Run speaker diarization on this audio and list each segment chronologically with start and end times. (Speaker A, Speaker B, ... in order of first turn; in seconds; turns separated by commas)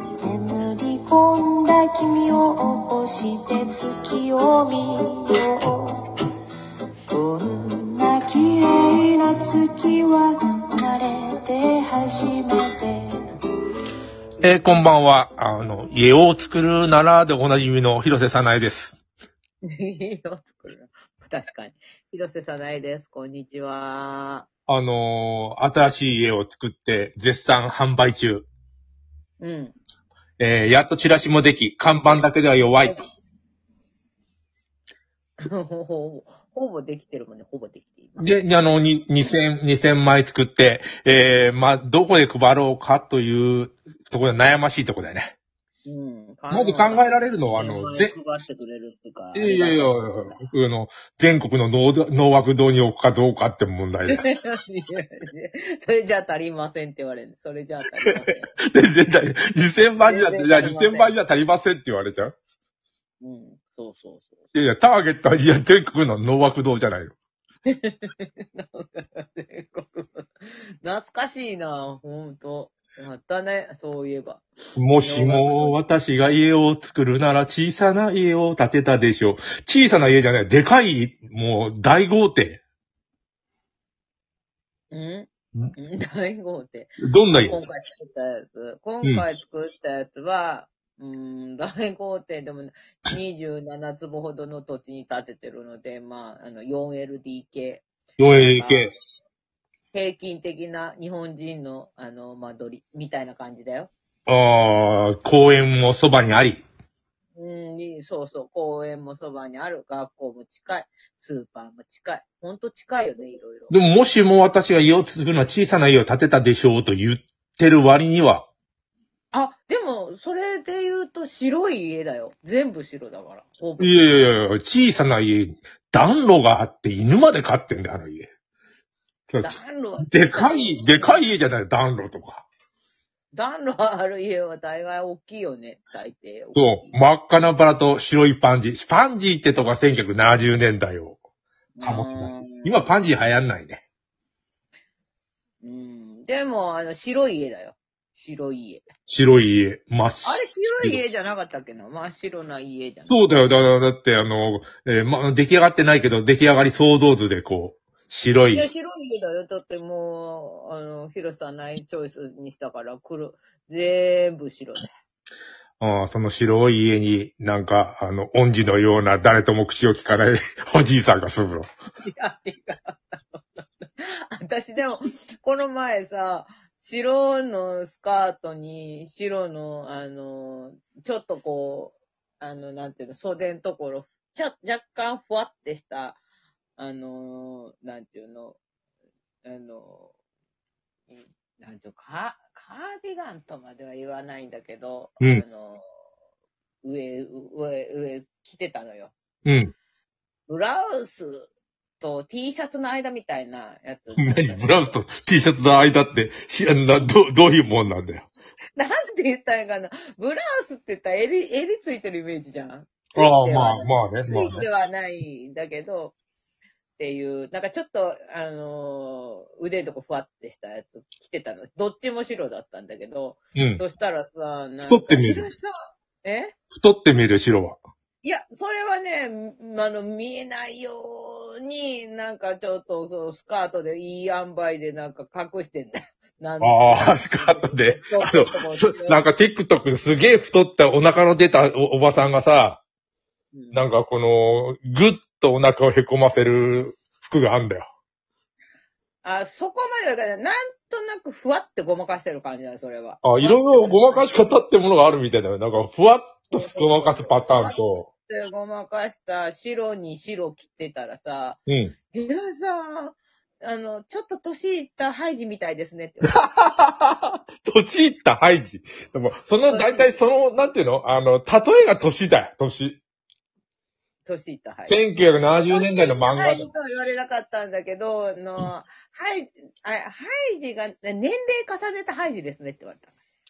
Speaker A: 0.2-6.3, Speaker A: 7.1-13.1, Speaker B: 14.4-19.0, Speaker C: 19.7-24.5, Speaker B: 24.7-28.5, Speaker C: 29.4-29.8, Speaker B: 30.4-33.0, Speaker C: 35.4-38.3, Speaker B: 38.2-45.3, Speaker C: 45.9-50.4, Speaker B: 46.5-48.1, Speaker B: 49.4-54.2, Speaker C: 54.1-58.5, Speaker B: 58.0-62.3, Speaker C: 60.0-61.1, Speaker C: 63.2-64.5, Speaker B: 64.5-67.2, Speaker C: 67.7-74.4, Speaker B: 74.8-82.6, Speaker C: 75.0-75.8, Speaker C: 84.9-97.8, Speaker B: 87.0-87.6, Speaker B: 98.2-98.9, Speaker C: 98.4-98.9, Speaker C: 99.9-103.9, Speaker B: 104.3-106.6, Speaker C: 107.4-113.7, Speaker B: 113.7-118.5, Speaker C: 119.3-124.1, Speaker B: 123.8-128.3, Speaker B: 129.3-129.6, Speaker C: 129.4-131.2, Speaker B: 130.1-132.4, Speaker C: 133.3-137.0, Speaker B: 136.6-141.2, Speaker C: 141.8-142.9, Speaker B: 141.8-143.8, Speaker C: 145.6-148.8, Speaker B: 149.1-151.0, Speaker C: 150.2-153.2, Speaker B: 153.1-158.7, Speaker C: 158.5-164.9, Speaker B: 165.8-171.7, Speaker C: 172.1-186.2, Speaker C: 186.8-188.6, Speaker C: 189.4-190.1, Speaker C: 191.1-195.8, Speaker C: 196.8-199.1, Speaker B: 199.4-199.7, Speaker C: 200.5-204.7, Speaker B: 204.2-208.3, Speaker C: 208.8-216.2, Speaker B: 213.2-214.7, Speaker C: 217.0-226.5, Speaker B: 223.6-223.8, Speaker B: 224.9-225.5, Speaker B: 226.7-227.8, Speaker C: 228.2-239.2, Speaker B: 236.6-242.8, Speaker C: 243.5-243.8, Speaker B: 243.7-247.9, Speaker C: 249.2-254.3, Speaker B: 253.2-258.1, Speaker C: 256.5-261.6, Speaker B: 261.7-261.9, Speaker C: 262.1-266.4, Speaker B: 266.3-273.0, Speaker C: 269.7-270.1, Speaker C: 274.2-283.1, Speaker B: 274.9-276.7